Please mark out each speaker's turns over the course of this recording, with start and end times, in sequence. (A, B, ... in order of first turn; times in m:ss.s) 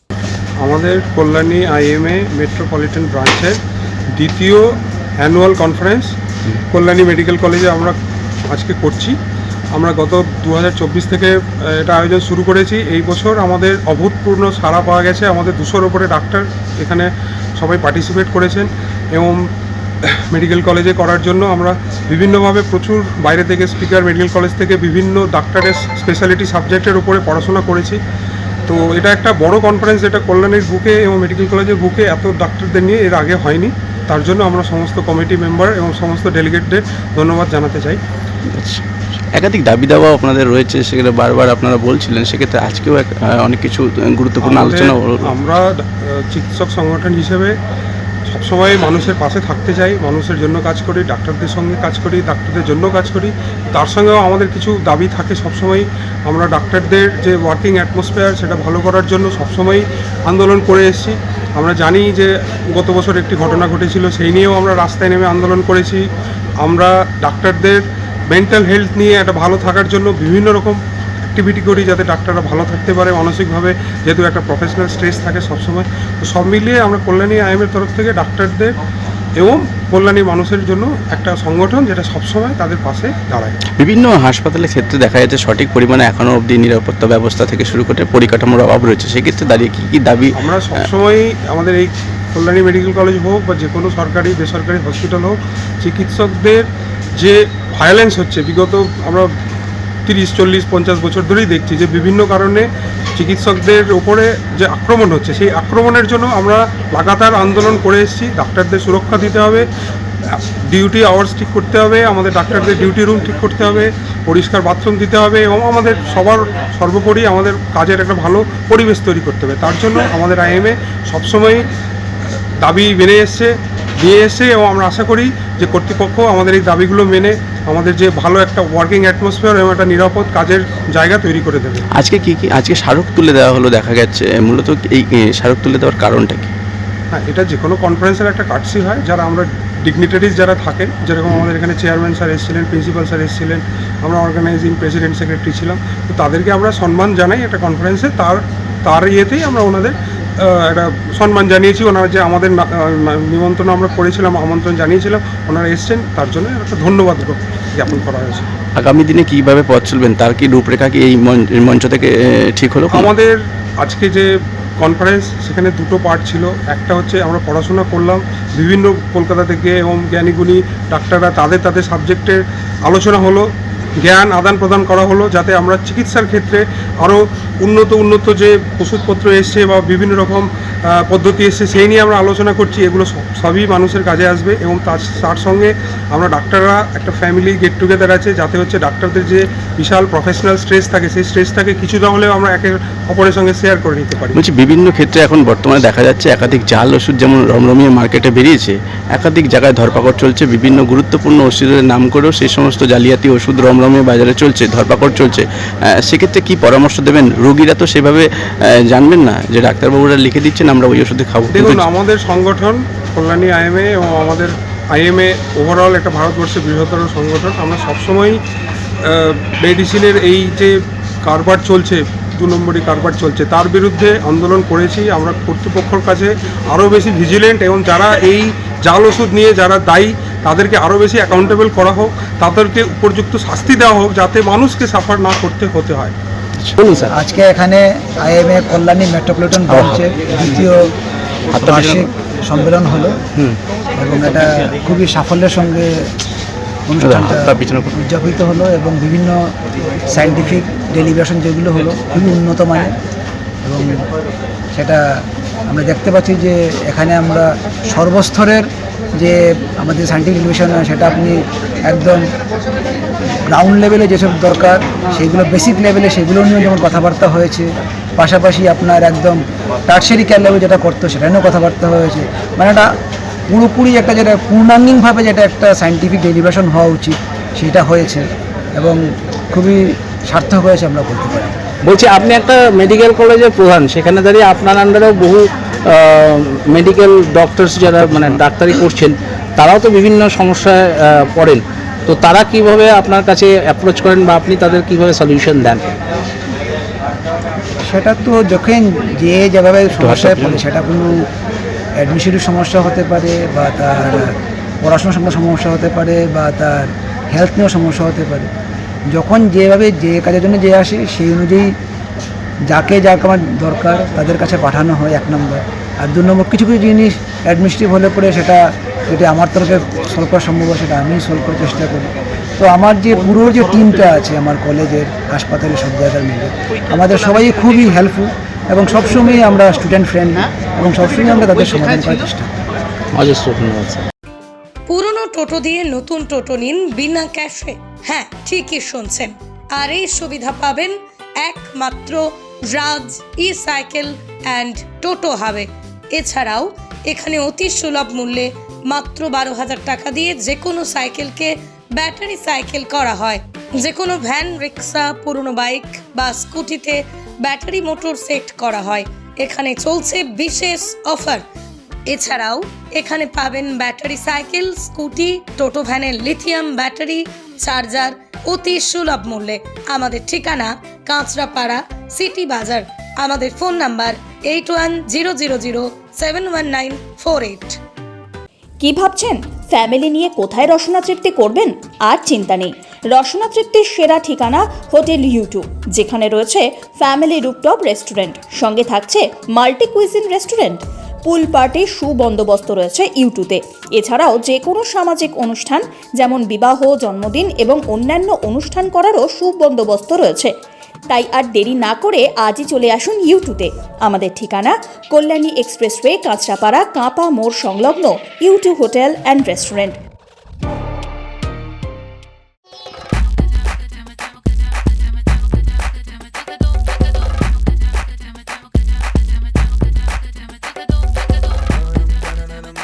0:00.6-0:03.6 A
0:04.2-0:06.1 A
0:06.7-0:08.0 A
0:08.5-0:09.2 A
0:09.8-0:17.1 A
0:17.6-0:19.4 A
0:20.0-0:28.0 A
0:28.7-0:38.0 A
0:38.5-0:45.3 B
0:44.4-0:47.5 A
0:48.3-1:06.0 A
1:06.6-1:10.8 A
1:11.3-1:18.7 A
1:19.4-1:23.6 A
1:23.8-1:30.9 B
1:30.4-1:36.6 A
1:37.2-1:39.3 A
1:40.1-1:42.6 A
1:43.2-1:49.7 A
1:50.3-2:01.6 A
2:02.6-2:03.5 A
2:04.0-2:11.8 A
2:11.9-2:16.5 B
2:17.1-2:38.5 A
2:38.8-2:43.1 B
2:43.1-2:44.3 A
2:44.8-2:53.5 A
2:54.0-3:14.3 A
3:14.3-3:25.4 B
3:26.0-3:28.2 B
3:28.9-3:31.8 B
3:31.5-3:38.4 A
3:39.1-3:40.7 A
3:41.2-3:56.1 A
3:56.8-3:57.1 C
3:57.1-4:00.8 D
3:59.7-4:00.6 B
4:01.5-4:02.0 B
4:01.6-4:03.1 D
4:04.0-4:05.9 D
4:06.9-4:09.4 D
4:07.0-4:07.9 B
4:10.1-4:12.9 D
4:13.6-4:14.0 D
4:14.7-4:15.0 D
4:15.7-4:18.6 D
4:19.2-4:22.2 D
4:23.5-4:32.9 D
4:33.5-4:41.5 D
4:41.8-4:55.8 C
4:57.9-5:01.1 D
5:00.0-5:00.6 B
5:02.0-5:04.3 D
5:04.8-5:08.5 D
5:09.1-5:11.7 D
5:12.7-5:32.5 D
5:33.2-5:34.0 C
5:34.9-6:01.4 E
6:02.1-6:17.8 E
6:18.8-6:40.5 F
6:41.1-6:50.0 F